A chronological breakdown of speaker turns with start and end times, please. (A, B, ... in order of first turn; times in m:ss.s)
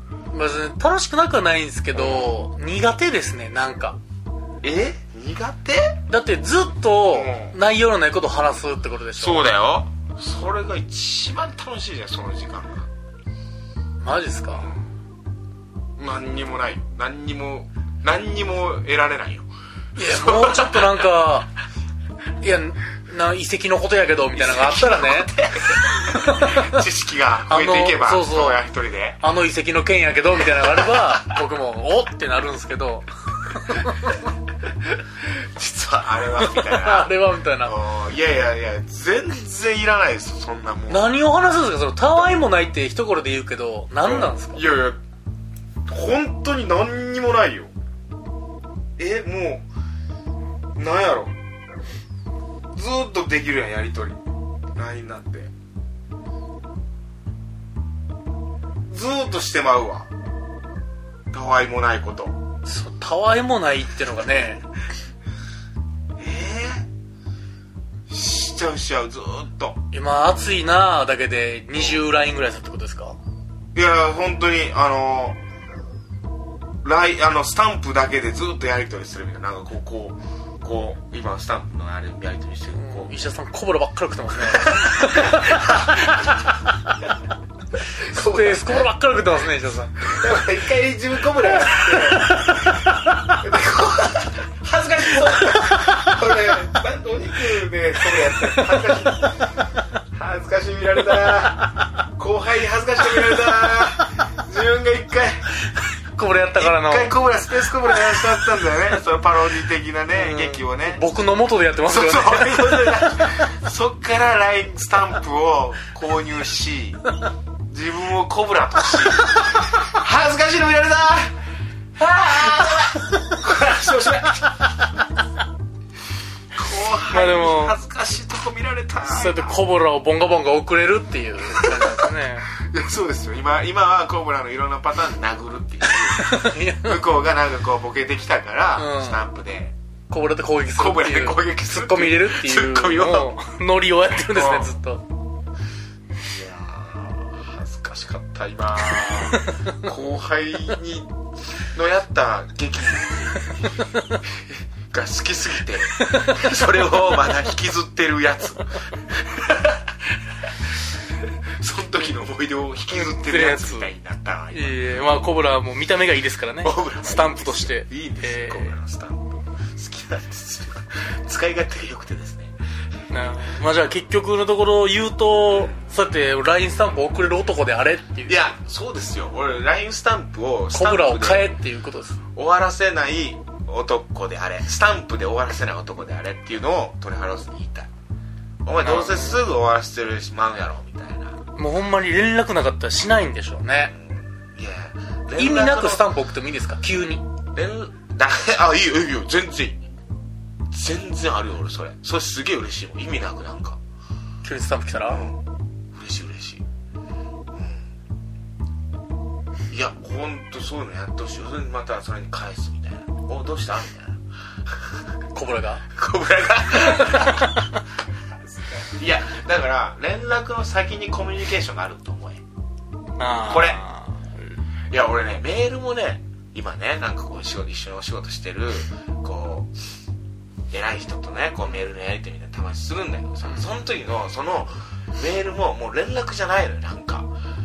0:00.3-0:04.0 A
0:01.9-0:02.4 B
0:04.6-0:06.0 B
0:06.1-0:09.5 A
0:07.1-0:07.6 B
0:09.2-0:12.9 B
0:14.0-0:14.7 A
0:16.0-0:21.0 B
0:20.0-0:21.5 A
0:22.4-0:25.3 A
0:24.3-0:29.2 B
0:26.0-0:26.8 A
0:27.5-0:28.6 A
0:29.2-0:34.2 A
0:34.8-0:41.2 B
0:36.4-0:37.7 A
0:40.9-0:44.7 A
0:44.0-0:45.0 B
0:45.9-0:47.7 B
0:49.0-0:49.7 B
0:50.8-0:51.4 B
0:52.7-0:54.2 B
0:54.8-0:55.5 B
0:58.9-1:00.1 B
1:01.3-1:02.4 B
1:02.6-1:04.6 A
1:06.2-1:06.9 B
1:08.1-1:09.8 B
1:09.9-1:13.2 A
1:13.8-1:15.4 B
1:16.8-1:23.2 B
1:22.8-1:26.2 A
1:24.5-1:26.5 B
1:28.0-1:30.0 A
1:28.1-1:28.8 B
1:30.0-1:32.8 B
1:32.0-1:32.8 A
1:33.3-1:39.3 B
1:35.6-1:36.1 A
1:38.2-1:38.8 A
1:40.1-1:45.4 B
1:46.1-1:47.2 A
1:46.6-1:51.0 B
1:50.1-1:53.4 A
1:51.8-1:57.0 B
1:57.7-2:01.4 B
2:02.0-2:04.5 B
2:06.5-2:09.6 B
2:07.1-2:07.8 A
2:09.1-2:12.5 A
2:11.5-2:19.8 B
2:15.9-2:17.0 A
2:18.8-2:19.2 A
2:20.1-2:25.0 A
2:20.7-2:23.3 B
2:24.1-2:24.7 B
2:26.2-2:33.7 B
2:29.0-2:29.9 A
2:33.6-2:34.0 A
2:34.2-2:44.9 B
2:36.0-2:36.5 A
2:42.9-2:43.9 A
2:44.5-2:48.8 A
2:46.6-2:52.6 B
2:53.1-2:58.5 A
2:58.3-3:01.5 B
3:00.7-3:02.2 A
3:02.3-3:07.9 B
3:08.6-3:11.4 B
3:08.8-3:09.4 A
3:11.6-3:13.9 A
3:13.8-3:16.1 B
3:15.4-3:17.2 A
3:17.5-3:19.8 B
3:20.7-3:23.8 B
3:24.4-3:25.3 A
3:25.1-3:25.4 B
3:25.9-3:26.6 B
3:27.5-3:27.9 B
3:29.7-3:35.1 B
3:35.3-3:35.8 A
3:35.9-3:37.6 B
3:36.8-3:37.8 A
3:38.5-3:42.4 B
3:43.2-3:44.4 A
3:43.2-3:43.8 B
3:44.9-3:49.8 B
3:50.7-3:57.3 B
3:53.4-3:53.7 A